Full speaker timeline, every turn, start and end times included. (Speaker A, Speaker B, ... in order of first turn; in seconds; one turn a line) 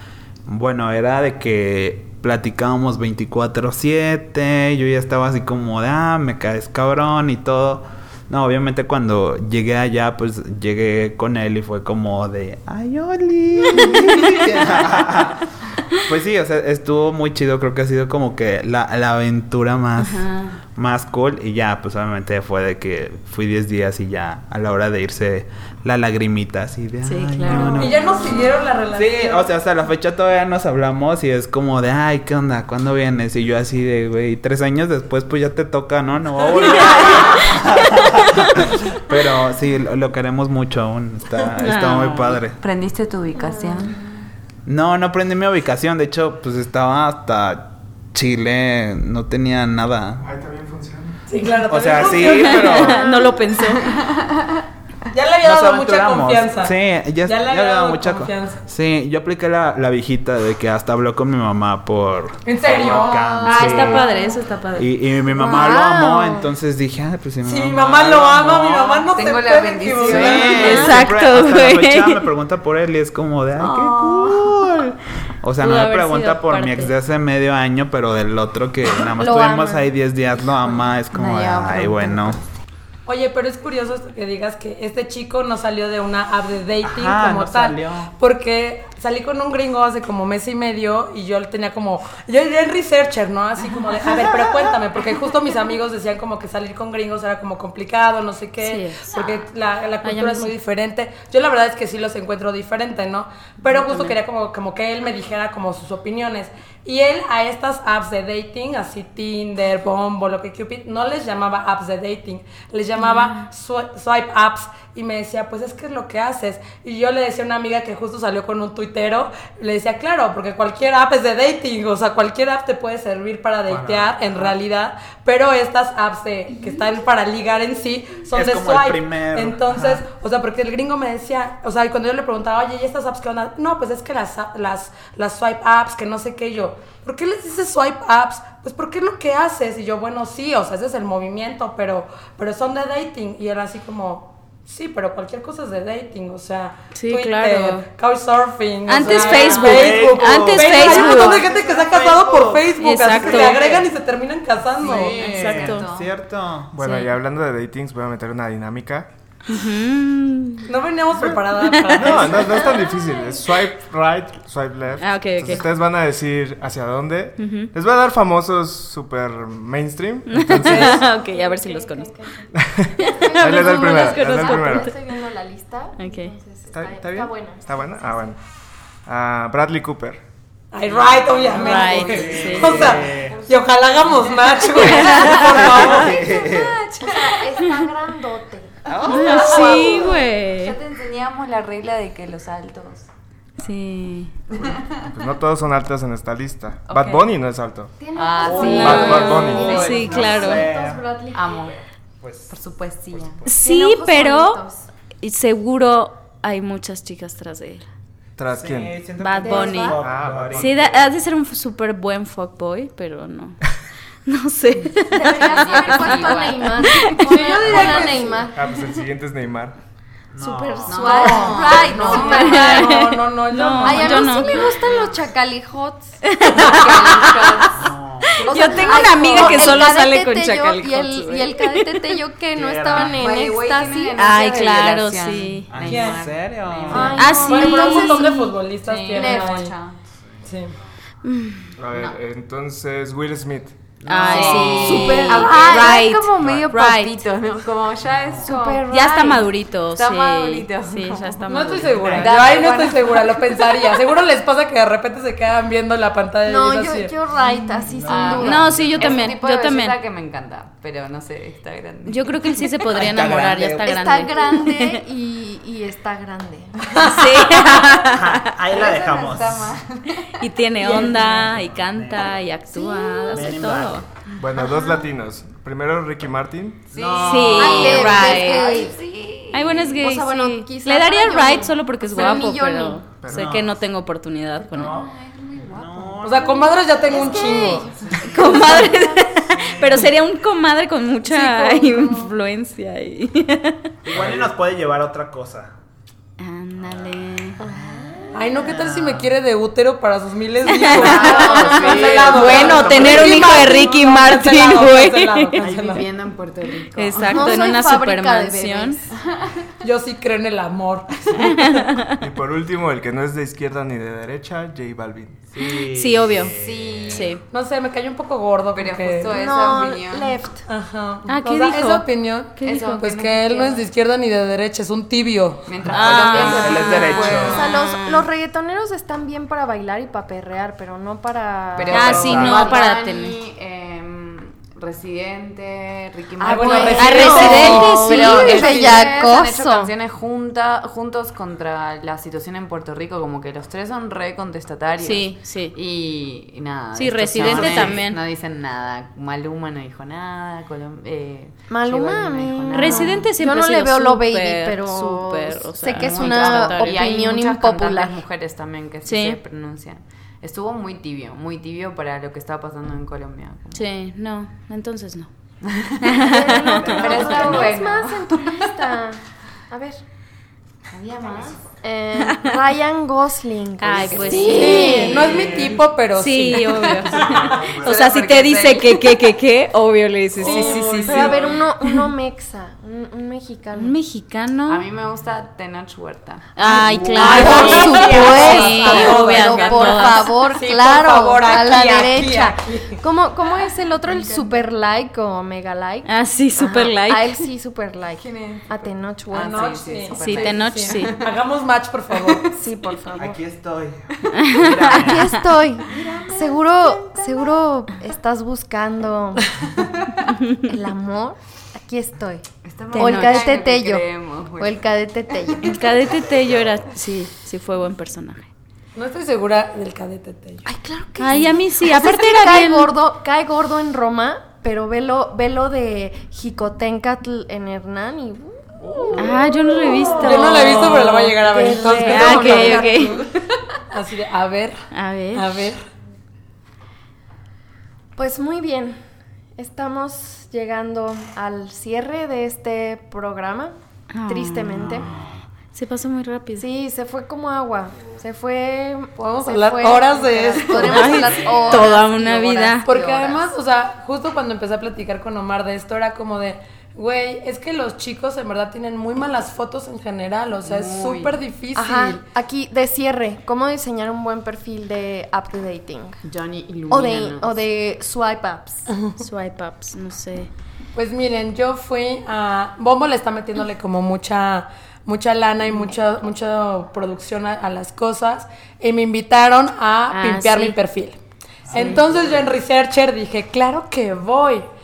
Speaker A: 0.5-42.6
Speaker B: 20.0-20.6
Speaker B: 27.0-27.9
Speaker C: 27.8-29.5
Speaker B: 41.6-42.4
Speaker D: 42.6-44.0
Speaker E: 43.4-43.9
Speaker A: 44.7-50.3
Speaker F: 50.2-51.2
Speaker C: 51.3-53.0
Speaker A: 51.7-53.0
Speaker B: 52.3-54.0
Speaker E: 52.8-53.4
Speaker C: 55.1-58.6
Speaker A: 55.4-64.1
Speaker C: 62.5-63.2
Speaker D: 62.8-63.6
Speaker B: 63.5-64.9
Speaker A: 64.8-69.1
Speaker E: 65.3-66.5
Speaker C: 67.4-70.8
Speaker D: 69.1-71.1
Speaker A: 70.0-82.4
Speaker B: 70.5-72.2
Speaker D: 73.6-74.6
Speaker B: 75.6-77.0
Speaker E: 79.2-79.9
Speaker D: 80.4-82.5
Speaker C: 83.1-155.2
Speaker A: 86.8-88.1
Speaker A: 94.0-94.7
Speaker B: 98.6-99.4
Speaker B: 100.0-100.5
Speaker B: 103.7-104.2
Speaker B: 113.1-113.3
Speaker A: 123.7-124.6
Speaker A: 128.3-130.0
Speaker B: 146.9-147.8
Speaker B: 148.9-151.4
Speaker A: 149.0-153.9
Speaker D: 149.1-149.7
Speaker B: 152.8-153.6
Speaker D: 154.8-156.1
Speaker A: 154.8-156.7
Speaker B: 155.3-155.9
Speaker F: 156.7-159.1
Speaker B: 156.8-157.1
Speaker B: 159.5-160.7
Speaker C: 160.7-162.8
Speaker B: 161.6-162.2
Speaker F: 162.0-171.1
Speaker B: 165.0-165.7
Speaker B: 167.4-167.7
Speaker B: 170.3-172.1
Speaker C: 170.6-171.0
Speaker E: 171.1-178.3
Speaker F: 172.6-174.9
Speaker B: 173.0-174.9
Speaker B: 176.0-176.3
Speaker F: 176.7-178.4
Speaker F: 179.1-180.2
Speaker C: 180.7-186.1
Speaker D: 181.0-186.2
Speaker A: 181.1-181.5
Speaker B: 181.5-182.9
Speaker A: 182.1-183.4
Speaker B: 184.8-185.6
Speaker A: 185.3-186.8
Speaker E: 185.8-190.3
Speaker B: 187.6-187.8
Speaker A: 188.9-189.3
Speaker D: 189.0-193.1
Speaker B: 189.1-190.8
Speaker B: 193.6-194.3
Speaker D: 194.5-194.9
Speaker F: 195.1-198.0
Speaker D: 196.9-197.3
Speaker E: 198.0-201.7
Speaker D: 198.1-200.3
Speaker A: 198.4-201.0
Speaker B: 198.6-200.6
Speaker F: 198.7-199.8
Speaker D: 201.3-201.8
Speaker A: 202.2-202.6
Speaker D: 202.5-203.4
Speaker A: 203.1-203.4
Speaker B: 203.5-204.6
Speaker E: 203.5-204.9
Speaker B: 205.2-207.9
Speaker F: 208.4-209.0
Speaker A: 208.5-211.1
Speaker B: 209.2-210.0
Speaker E: 209.4-210.0
Speaker F: 210.0-210.8
Speaker B: 210.5-213.6
Speaker B: 214.3-217.8
Speaker E: 215.1-218.8
Speaker D: 215.2-218.4
Speaker F: 217.7-219.8
Speaker A: 220.3-221.7
Speaker E: 220.4-222.9
Speaker D: 220.9-222.9
Speaker C: 221.1-224.5
Speaker B: 222.3-224.6
Speaker E: 223.8-227.6
Speaker B: 226.2-227.7
Speaker D: 226.6-229.9
Speaker A: 227.7-228.4
Speaker E: 228.4-234.2
Speaker B: 228.4-232.0
Speaker A: 232.6-233.2
Speaker D: 232.9-237.3
Speaker B: 234.2-235.7
Speaker A: 235.7-237.3
Speaker C: 235.9-236.2
Speaker E: 236.9-238.6
Speaker B: 237.2-238.3
Speaker C: 237.4-239.8
Speaker D: 238.8-240.1
Speaker E: 239.1-239.6
Speaker C: 240.5-240.7
Speaker B: 241.2-241.7
Speaker F: 241.8-243.8
Speaker A: 244.0-245.2
Speaker B: 244.1-247.3
Speaker D: 244.1-254.0
Speaker E: 244.8-246.0
Speaker A: 246.4-246.7
Speaker A: 248.0-248.6
Speaker E: 248.4-248.8
Speaker B: 248.9-252.3
Speaker C: 251.5-257.1
Speaker A: 251.9-252.3
Speaker E: 256.4-258.8
Speaker A: 257.9-259.4
Speaker D: 258.1-262.5
Speaker B: 258.4-259.9
Speaker B: 262.1-265.0
Speaker A: 262.9-263.9
Speaker E: 263.8-267.6
Speaker B: 267.0-268.4
Speaker A: 268.0-269.7
Speaker D: 268.7-271.2
Speaker B: 270.4-274.1
Speaker A: 271.0-272.4
Speaker E: 272.7-273.4
Speaker A: 273.3-274.1
Speaker F: 274.4-277.0
Speaker D: 274.6-274.9
Speaker D: 276.9-280.0
Speaker A: 276.9-278.1
Speaker B: 277.2-278.9
Speaker E: 277.6-279.0
Speaker B: 279.5-285.0
Speaker E: 280.0-283.1
Speaker F: 283.2-283.5
Speaker A: 283.3-283.8
Speaker A: 284.7-285.1
Speaker D: 284.9-289.0
Speaker A: 285.6-286.6
Speaker C: 286.2-287.9
Speaker E: 287.1-289.3
Speaker A: 288.0-288.8
Speaker B: 288.2-293.9
Speaker A: 289.5-290.1
Speaker C: 291.4-291.7
Speaker A: 294.0-295.7
Speaker B: 296.4-297.6
Speaker A: 296.8-299.3
Speaker E: 297.6-298.4
Speaker C: 298.3-306.1
Speaker B: 300.7-305.7
Speaker A: 300.9-303.7
Speaker D: 301.1-303.0
Speaker D: 305.6-307.6
Speaker B: 306.9-309.0
Speaker E: 307.3-309.1
Speaker D: 309.1-309.7
Speaker C: 309.8-311.6
Speaker B: 311.4-312.1
Speaker F: 312.2-315.4
Speaker A: 315.5-317.4
Speaker B: 315.9-316.5
Speaker D: 316.4-317.3
Speaker B: 317.1-317.4
Speaker C: 317.5-319.4
Speaker D: 318.7-320.4
Speaker E: 319.3-320.6
Speaker C: 320.7-325.6
Speaker B: 321.3-322.0
Speaker B: 322.6-323.0
Speaker D: 322.6-323.9
Speaker D: 325.7-328.2
Speaker A: 325.8-327.7
Speaker B: 325.9-327.6
Speaker E: 327.4-332.8
Speaker D: 331.8-353.3
Speaker B: 331.9-333.4
Speaker A: 331.9-332.8
Speaker C: 336.4-339.0
Speaker E: 336.4-339.9
Speaker B: 337.0-338.8
Speaker B: 345.0-345.8
Speaker B: 347.0-348.2
Speaker A: 347.4-348.0
Speaker E: 351.7-358.2
Speaker B: 352.7-357.0
Speaker D: 355.9-363.8
Speaker B: 359.1-359.4
Speaker B: 363.7-365.3
Speaker D: 365.8-368.7
Speaker B: 366.0-367.0
Speaker E: 366.2-370.0
Speaker A: 366.7-367.8
Speaker D: 370.9-371.6
Speaker E: 371.8-375.3
Speaker B: 372.3-372.5
Speaker B: 373.8-375.5
Speaker D: 373.9-375.8
Speaker C: 374.5-377.6
Speaker A: 375.3-375.8
Speaker B: 376.2-381.4
Speaker D: 376.6-379.1
Speaker A: 377.1-378.2
Speaker D: 380.4-381.6
Speaker E: 380.4-383.9
Speaker B: 383.8-384.8
Speaker D: 384.7-389.4
Speaker B: 386.6-390.3
Speaker C: 387.2-393.0
Speaker E: 387.2-399.9
Speaker D: 394.1-394.6
Speaker B: 396.1-397.4
Speaker D: 398.2-401.3
Speaker C: 399.4-402.5
Speaker B: 400.2-401.1
Speaker D: 402.2-402.6
Speaker E: 402.5-403.4
Speaker A: 403.2-405.3
Speaker D: 404.3-407.6
Speaker B: 404.4-405.4
Speaker E: 404.8-409.5
Speaker D: 409.9-410.1
Speaker B: 410.3-410.6
Speaker E: 410.6-415.8
Speaker D: 412.6-414.9
Speaker B: 412.9-413.6
Speaker D: 415.4-415.8
Speaker B: 415.6-418.5
Speaker A: 416.0-416.8
Speaker C: 419.0-420.6
Speaker E: 420.6-433.3
Speaker B: 421.2-422.9
Speaker B: 429.1-431.3
Speaker C: 430.2-432.9
Speaker B: 431.9-433.3
Speaker C: 433.9-435.8
Speaker B: 434.9-435.5
Speaker E: 438.2-439.0
Speaker E: 439.6-443.8
Speaker B: 444.1-445.0
Speaker E: 444.3-445.1
Speaker A: 444.8-445.4
Speaker B: 445.7-446.7
Speaker E: 446.6-453.5
Speaker C: 449.2-451.1
Speaker D: 450.6-451.2
Speaker B: 450.9-452.9
Speaker A: 451.2-451.8
Speaker C: 452.9-462.2
Speaker D: 460.6-461.4
Speaker E: 461.8-466.2
Speaker D: 466.2-467.6
Speaker E: 466.9-468.9
Speaker B: 469.2-470.5
Speaker C: 470.9-481.2
Speaker B: 480.1-480.8
Speaker A: 481.6-482.5
Speaker C: 481.7-484.7